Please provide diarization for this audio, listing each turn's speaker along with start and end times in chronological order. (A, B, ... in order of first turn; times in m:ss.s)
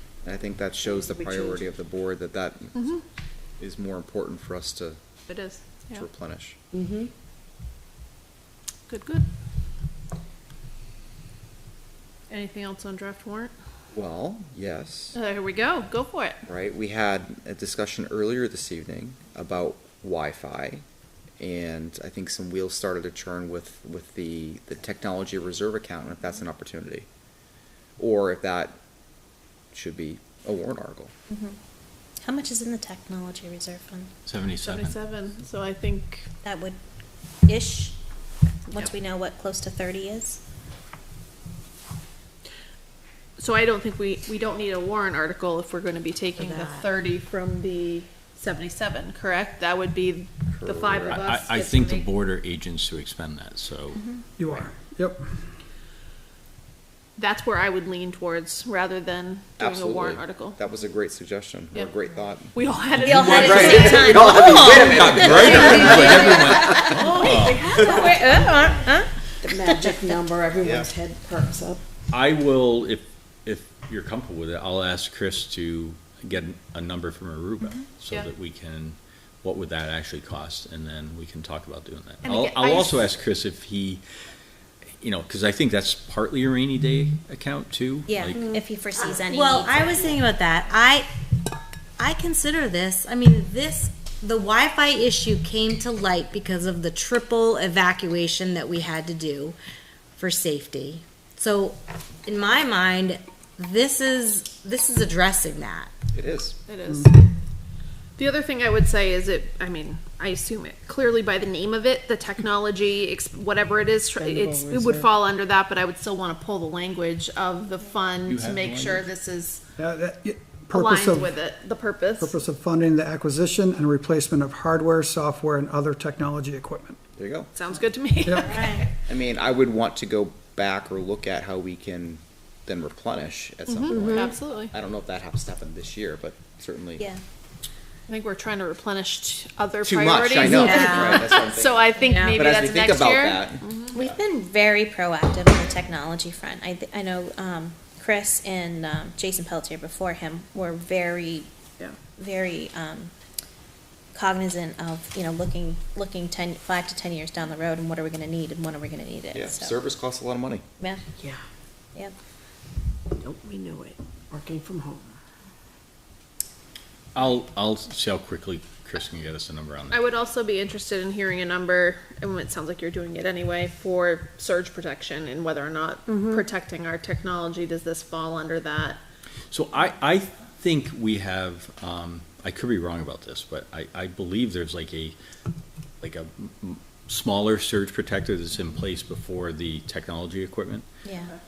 0:00.2-0:03.0 A
0:01.0-0:01.6 B
0:03.6-0:05.0 A
0:05.3-0:06.0 C
0:05.9-0:06.6 A
0:06.7-0:07.1 B
0:08.9-0:09.2 C
0:12.3-0:13.5 C
0:13.9-0:15.1 A
0:15.1-0:16.4 C
0:16.4-0:20.8 A
0:21.4-0:27.1 A
0:28.0-0:28.8 A
0:29.7-0:31.1 A
0:31.3-0:31.6 D
0:32.2-0:34.1 D
0:34.2-0:35.0 E
0:34.6-0:36.3 C
0:36.4-0:36.8 D
0:37.5-0:38.0 D
0:38.7-0:40.4 D
0:43.4-0:52.1 C
0:46.4-0:46.8 F
0:50.5-0:51.2 A
0:51.2-0:54.0 E
0:54.0-0:54.2 D
0:54.4-0:55.3 G
0:57.2-1:00.6 C
0:59.6-1:02.5 A
1:02.5-1:04.1 C
1:02.9-1:07.8 E
1:03.0-1:05.8 D
1:03.3-1:07.1 A
1:05.8-1:08.6 B
1:06.1-1:06.5 F
1:06.6-1:07.0 D
1:07.7-1:08.1 A
1:07.8-1:10.1 D
1:09.4-1:11.8 B
1:10.6-1:10.9 A
1:12.1-1:24.0 E
1:22.2-1:23.1 C
1:25.0-1:28.4 E
1:28.1-1:30.3 D
1:28.4-1:31.1 F
1:32.0-1:39.6 F
1:40.2-1:45.9 F
1:46.1-1:46.6 A
1:46.7-1:47.2 C
1:48.2-1:59.6 C
1:54.2-1:55.0 G
1:58.2-1:59.1 E
1:59.8-2:01.4 G
2:00.7-2:02.4 C
2:02.2-2:07.0 G
2:07.2-2:07.5 A
2:07.5-2:08.8 C
2:08.2-2:08.6 G
2:08.6-2:08.9 D
2:09.0-2:17.1 A
2:13.7-2:14.7 C
2:18.1-2:24.0 C
2:19.8-2:24.2 A
2:20.4-2:21.3 F
2:22.1-2:22.4 F
2:23.9-2:31.5 D
2:32.1-2:33.1 D
2:34.1-2:39.8 D
2:39.3-2:40.6 A
2:43.2-2:45.1 B
2:47.1-2:50.0 E
2:49.9-2:59.0 C
2:56.1-2:56.4 B
2:59.5-3:05.2 E
3:06.0-3:10.9 E
3:11.0-3:11.3 D